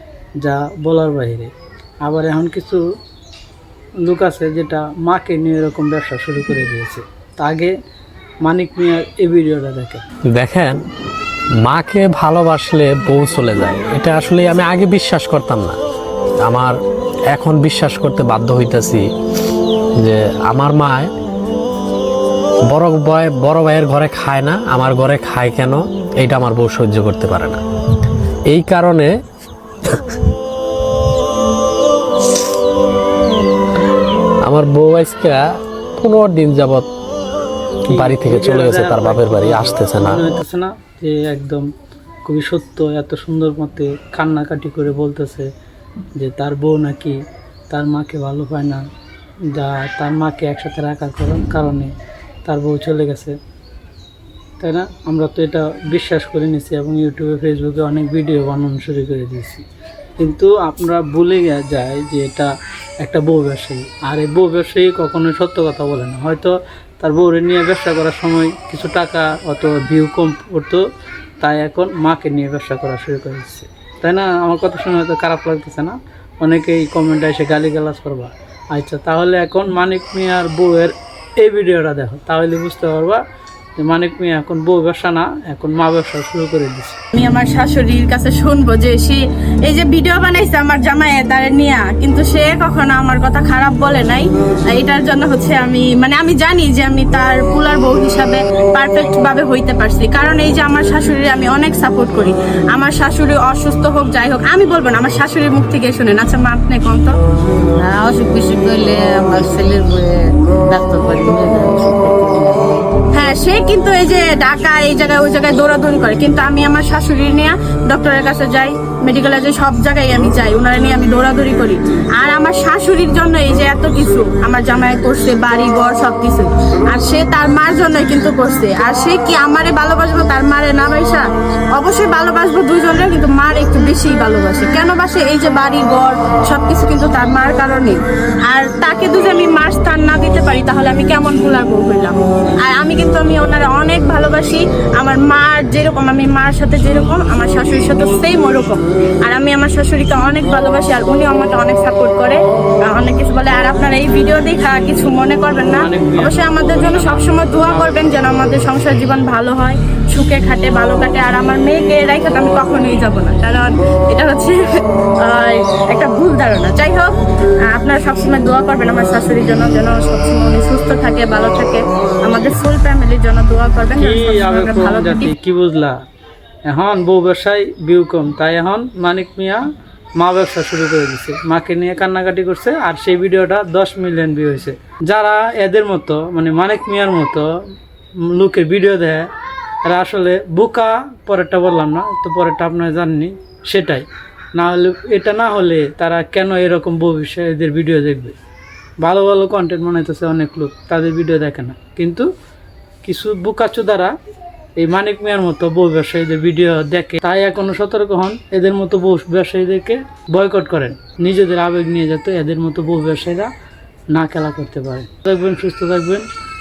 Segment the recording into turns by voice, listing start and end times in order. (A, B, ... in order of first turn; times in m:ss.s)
0:00.4-0:01.5 A
0:02.0-0:02.8 A
0:04.0-0:07.7 A
0:08.4-0:10.0 A
0:10.3-0:10.8 B
0:11.6-0:15.8 B
0:16.4-0:16.7 B
0:17.3-0:19.0 B
0:20.0-0:21.1 B
0:22.7-0:27.6 B
0:28.5-0:29.1 B
0:29.8-0:30.2 B
0:34.4-0:35.4 B
0:36.0-0:36.9 B
0:37.9-0:40.2 B
0:37.9-0:41.7 A
0:42.2-0:45.5 A
0:46.2-0:48.8 A
0:49.5-0:51.9 A
0:52.4-0:53.4 A
0:54.6-0:59.6 A
1:00.2-1:02.5 A
1:03.0-1:10.8 A
1:11.4-1:23.2 A
1:23.8-1:27.0 A
1:27.1-1:47.1 C
1:47.8-1:52.9 D
1:53.1-2:32.4 C
2:32.9-2:44.6 C
2:35.7-2:38.2 A
2:45.2-2:47.1 C
2:47.7-2:55.3 C
2:54.0-2:56.0 A
2:56.7-2:59.6 A
3:00.2-3:07.5 A
3:08.2-3:09.3 A
3:09.8-3:18.4 A
3:19.0-3:22.2 A
3:23.0-3:24.1 A
3:24.8-3:33.5 A
3:34.1-3:36.3 A